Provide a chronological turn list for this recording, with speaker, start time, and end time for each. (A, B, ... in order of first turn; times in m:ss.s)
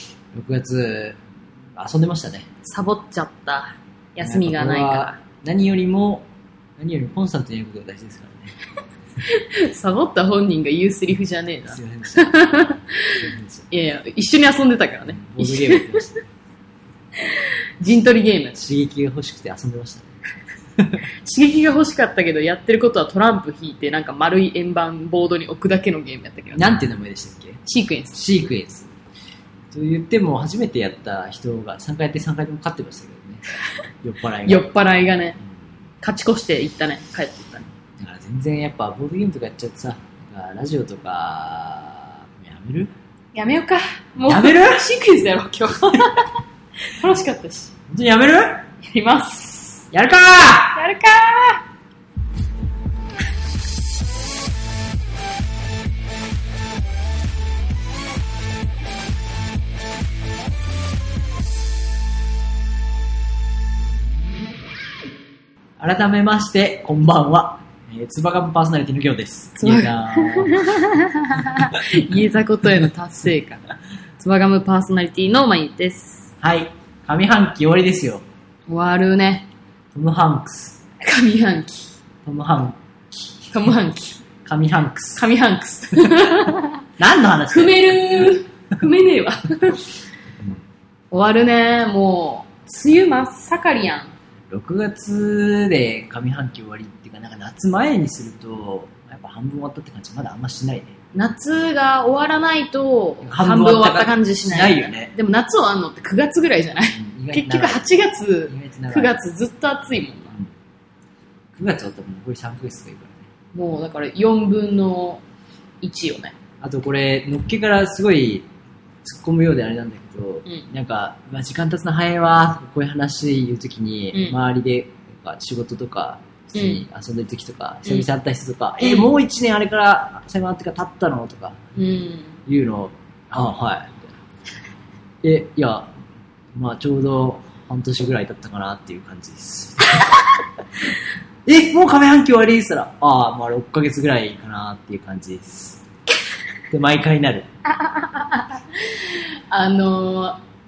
0:00.3-0:01.2 A
0:01.8-0:02.5 A
0:02.6-0:05.2 B
0:04.2-0:06.3 A
0:06.8-0:08.5 A
0:09.2-0:16.0 B
0:11.7-0:12.5 A
0:13.2-0:13.6 A
0:15.1-0:16.2 A
0:17.2-0:18.6 B
0:18.6-0:20.1 A
0:21.2-0:26.8 B
0:26.5-0:27.6 A
0:27.7-0:28.2 B
0:28.1-0:28.9 A
0:29.7-0:33.4 A
0:34.0-0:34.7 A
0:34.4-0:35.4 B
0:36.0-0:37.7 B
0:38.0-0:42.9 A
0:43.3-0:47.7 B
0:44.3-0:44.8 A
0:47.9-0:48.7 A
0:48.8-0:49.9 B
0:49.9-0:50.8 A
0:50.7-0:51.6 B
1:05.8-1:11.0 A
1:09.6-1:13.6 B
1:14.2-1:16.3 B
1:16.4-1:18.2 A
1:18.7-1:19.5 B
1:19.9-1:20.8 A
1:21.0-1:21.9 B
1:22.2-1:23.5 A
1:23.5-1:24.2 B
1:24.4-1:25.2 A
1:25.2-1:26.8 B
1:27.0-1:28.3 A
1:27.5-1:29.9 B
1:31.1-1:34.1 B
1:34.5-1:41.0 A
1:41.1-1:50.3 B
1:43.2-1:45.1 A
1:46.9-1:47.8 A
1:48.5-1:49.1 A
1:51.6-1:53.3 A
1:53.5-1:55.2 B
1:55.8-1:56.3 B
1:56.6-1:58.4 A
1:59.0-2:11.6 A
2:04.1-2:04.4 B
2:06.6-2:06.8 B
2:08.8-2:09.1 B
2:11.8-2:12.4 B
2:12.4-2:14.1 A
2:15.2-2:15.9 A
2:16.5-2:20.1 A
2:21.4-2:25.8 A
2:26.7-2:27.5 A
2:27.8-2:30.4 B